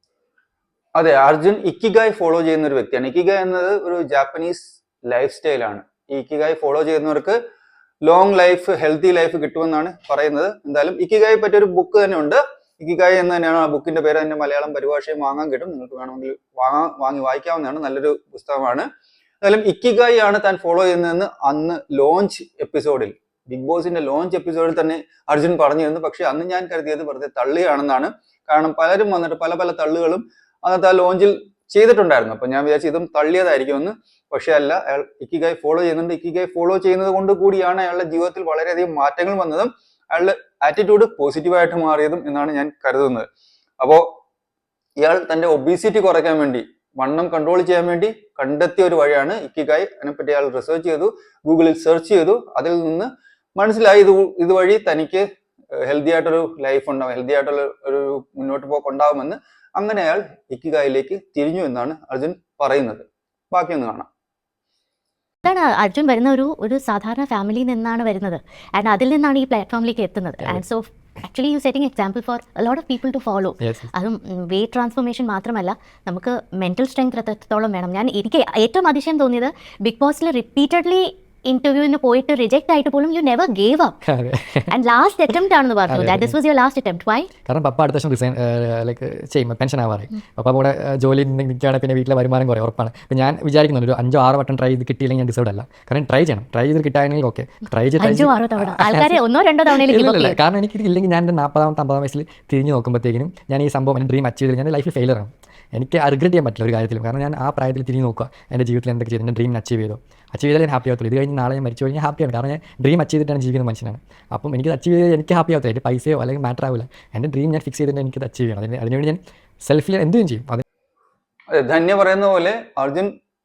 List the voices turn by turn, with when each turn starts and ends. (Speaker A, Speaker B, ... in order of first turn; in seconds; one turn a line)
Speaker A: 0.9-7.3
Speaker A: 8.1-18.9
Speaker A: 19.4-43.2
Speaker A: 43.8-44.0
Speaker A: 45.0-55.2
Speaker A: 55.8-64.1
Speaker B: 65.4-84.0
Speaker C: 73.6-73.9
Speaker C: 84.0-84.7
Speaker B: 84.7-87.3
Speaker C: 85.9-86.3
Speaker C: 87.4-120.6
Speaker B: 98.0-100.4
Speaker A: 121.5-123.1